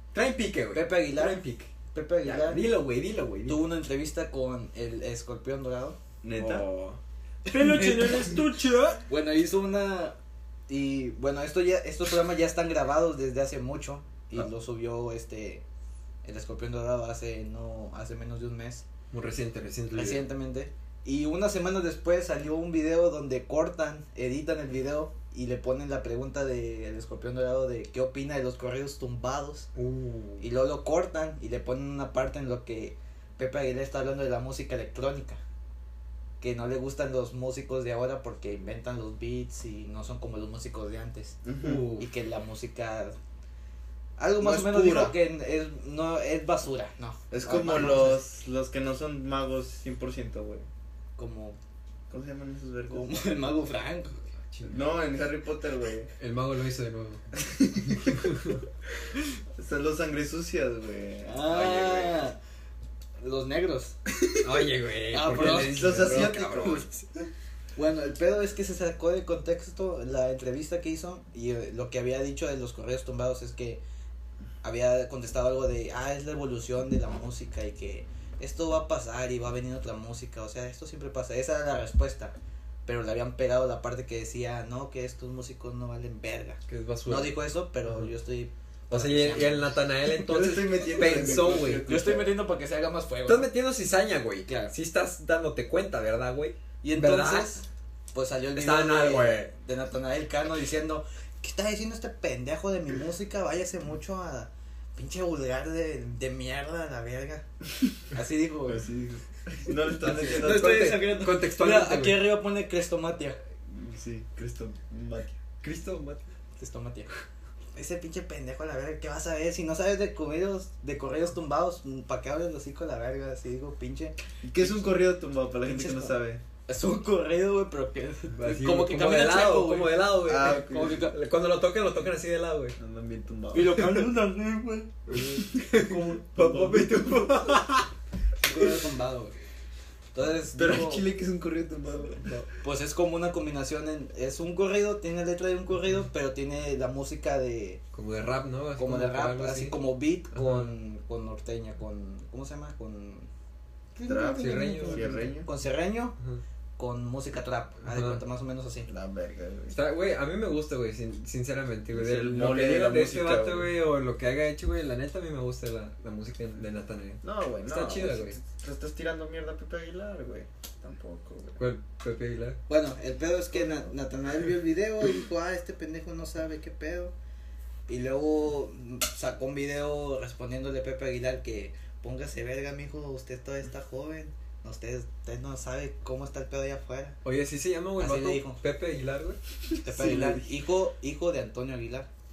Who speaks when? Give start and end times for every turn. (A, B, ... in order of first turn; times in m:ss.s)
0:00.1-0:01.7 A
0:00.7-0:02.7 B
0:02.2-0:03.6 A
0:03.5-0:06.0 B
0:06.2-0:06.7 C
0:06.4-0:09.0 A
0:07.5-0:08.3 B
0:09.1-0:10.2 B
0:10.7-0:15.6 B
0:16.2-0:18.8 B
0:19.1-0:20.3 A
0:19.9-0:29.7 B
0:29.8-0:30.5 A
0:30.4-0:35.4 B
0:36.4-0:41.4 B
0:41.4-0:41.8 C
0:41.6-0:42.1 A
0:42.0-0:43.2 B
0:44.2-0:48.2 B
0:44.4-0:45.2 C
0:47.3-0:50.7 C
0:51.2-0:51.6 B
0:52.1-0:53.3 C
0:52.9-0:54.2 B
0:54.5-0:54.9 A
0:54.6-0:56.1 C
0:56.2-0:57.2 A
0:57.4-0:58.2 C
0:58.0-0:58.6 A
0:59.6-1:02.0 C
1:01.3-1:02.4 B
1:01.6-1:02.1 A
1:03.2-1:04.0 B
1:04.1-1:04.5 C
1:04.4-1:07.0 A
1:05.1-1:06.4 B
1:05.3-1:07.0 C
1:07.8-1:13.8 B
1:14.6-1:22.4 B
1:22.9-1:29.8 B
1:26.7-1:28.1 A
1:28.9-1:32.0 A
1:30.1-1:32.4 C
1:31.0-1:33.5 B
1:33.3-1:37.6 A
1:34.5-1:34.7 B
1:36.8-1:47.5 B
1:38.6-1:39.5 A
1:48.1-1:48.9 B
1:48.7-1:51.0 C
1:50.0-1:52.4 A
1:50.0-1:53.4 B
1:53.7-1:55.4 C
1:55.6-1:56.3 A
1:56.6-1:57.1 B
1:57.8-2:05.0 B
2:04.4-2:06.4 C
2:05.6-2:11.2 B
2:08.3-2:12.8 A
2:10.2-2:11.1 C
2:12.8-2:13.8 C
2:13.5-2:16.2 B
2:15.1-2:17.9 A
2:16.4-2:17.3 C
2:18.4-2:19.4 B
2:20.1-2:21.1 B
2:20.5-2:22.4 C
2:22.6-2:27.8 B
2:27.9-2:30.7 A
2:28.8-2:33.3 B
2:34.0-2:36.2 B
2:34.0-2:35.5 C
2:34.4-2:35.3 A
2:36.8-2:38.9 B
2:37.9-2:38.2 A
2:38.9-2:39.8 C
2:39.7-2:48.4 A
2:41.9-2:43.8 C
2:47.2-2:51.6 C
2:51.6-2:52.6 A
2:52.7-2:57.2 B
2:53.5-2:53.9 C
2:57.9-3:07.2 B
3:07.2-3:10.4 A
3:08.0-3:08.6 B
3:09.8-3:12.1 B